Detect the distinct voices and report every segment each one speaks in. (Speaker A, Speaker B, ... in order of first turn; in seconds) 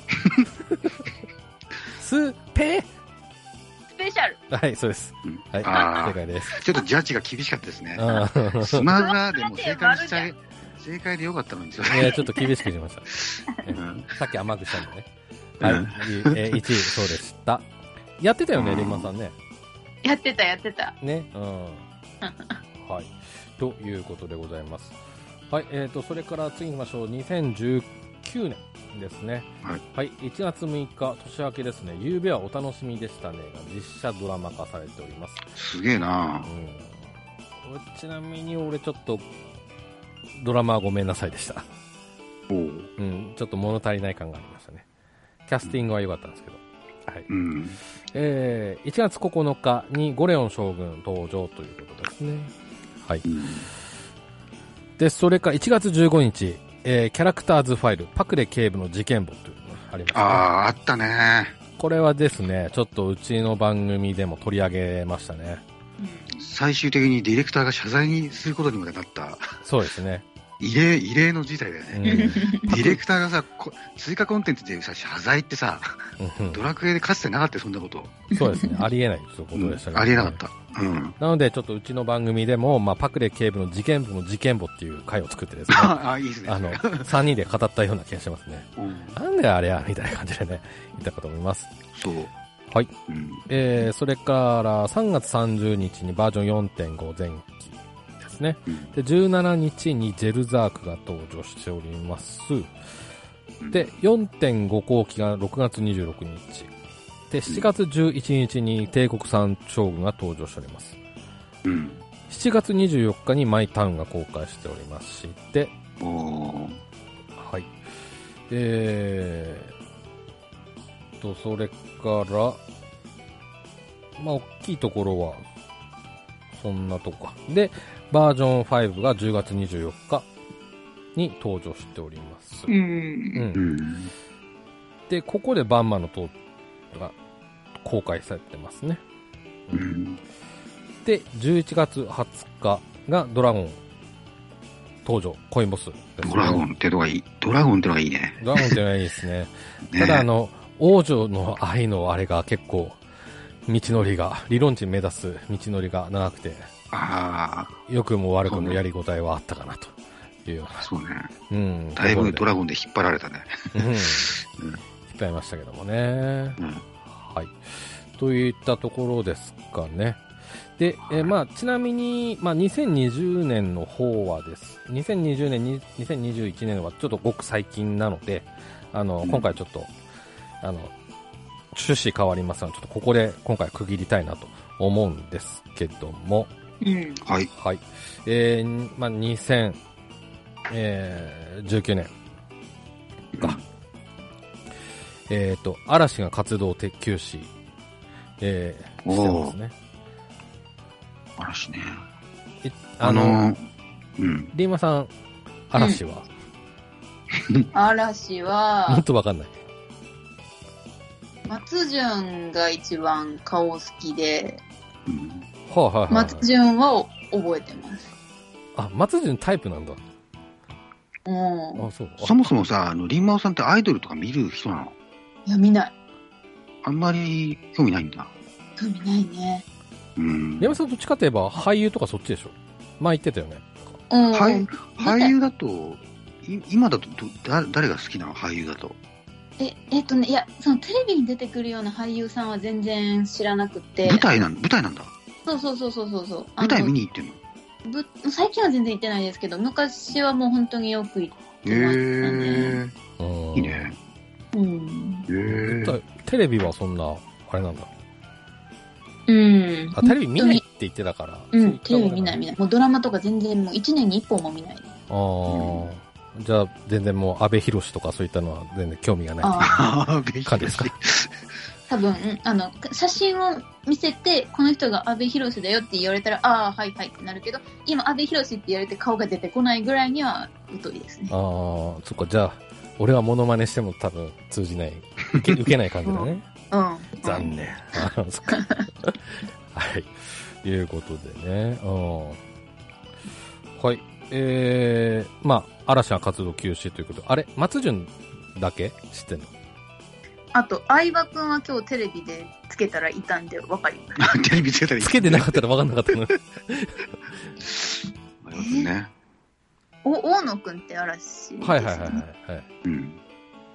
Speaker A: 0.2-0.4, 5.2-12.2, 13.7-14.1, 15.6-16.7, 18.6-19.1, 35.5-36.5, 42.5-42.9, 47.3-47.8, 53.2-53.7, 60.1-61.5, 66.3-69.5, 70.6-76.0, 76.5-78.2, 79.5-81.2, 85.7-87.1, 88.8-89.2, 91.9-92.3, 93.1-93.5, 98.7-98.9, 103.6-103.9, 111.6-112.0, 116.0-116.8, 133.5-134.1, 139.7-140.2, 146.2-148.8, 149.9-150.3, 156.9-157.8, 158.4-158.8, 160.8-161.3, 161.9-164.8, 166.6-166.8, 187.2-187.5, 193.3-193.6, 199.0-199.5, 201.4-202.0, 203.0-203.6, 204.2-204.5, 207.3-207.7, 215.1-215.4, 222.2-224.9, 226.8-228.3, 230.2-230.8, 234.3-239.0, 244.0-245.1, 246.6-247.4, 251.6-252.9, 253.5-253.9, 255.3-256.0, 265.5-265.8, 269.6-271.4, 304.2-305.6, 307.6-307.9, 308.4-309.1, 312.8-313.2
Speaker B: 2.0-2.9, 4.5-6.6, 8.0-8.9, 11.9-15.1, 15.6-17.6, 18.2-19.3, 21.0-21.8, 22.8-25.0, 25.5-35.4, 36.5-37.0, 37.6-39.2, 40.4-41.7, 43.0-44.8, 45.5-47.3, 48.1-52.5, 55.0-60.5, 61.8-65.6, 69.6-70.2, 71.9-72.9, 76.2-76.6, 78.3-80.4, 81.2-91.7, 93.5-102.7, 103.7-106.7, 107.3-111.0, 112.3-115.7, 117.4-117.7, 118.5-119.7, 121.2-122.6, 124.2-125.4, 126.5-130.3, 131.1-132.7, 133.3-133.7, 135.1-136.3, 137.8-139.0, 141.0-143.8, 145.0-146.6, 148.4-153.0, 153.7-156.7, 157.9-160.9, 161.5-162.4, 163.7-164.3, 165.1-170.2, 170.8-179.9, 180.6-180.9, 181.7-186.5, 187.5-189.8, 190.7-192.1, 195.3-197.5, 198.4-199.7, 202.6-203.4, 204.5-205.1, 205.7-206.3, 208.9-209.6, 215.7-216.5, 218.8-220.0, 221.8-222.5, 230.6-234.0, 253.2-253.9, 255.4-257.9, 259.9-262.4, 265.1-269.8, 270.4-270.9, 281.3-286.4, 287.2-292.4, 293.8-299.5, 305.0-307.1, 311.6-312.6
Speaker C: 3.9-4.4, 8.9-10.3, 20.0-20.9, 22.2-22.6, 66.0-66.3, 72.1-72.8, 78.4-78.8, 132.7-133.4, 186.8-187.2, 207.7-209.0, 211.5-214.6, 216.1-218.1, 221.2-221.8, 225.4-225.9, 228.8-229.6, 234.1-235.3, 239.6-244.2, 245.4-246.9, 247.8-252.8, 254.5-255.3, 259.3-260.6, 261.5-264.9, 269.4-269.8, 271.9-281.3, 286.0-288.8, 300.5-304.4, 308.6-308.9, 310.0-312.2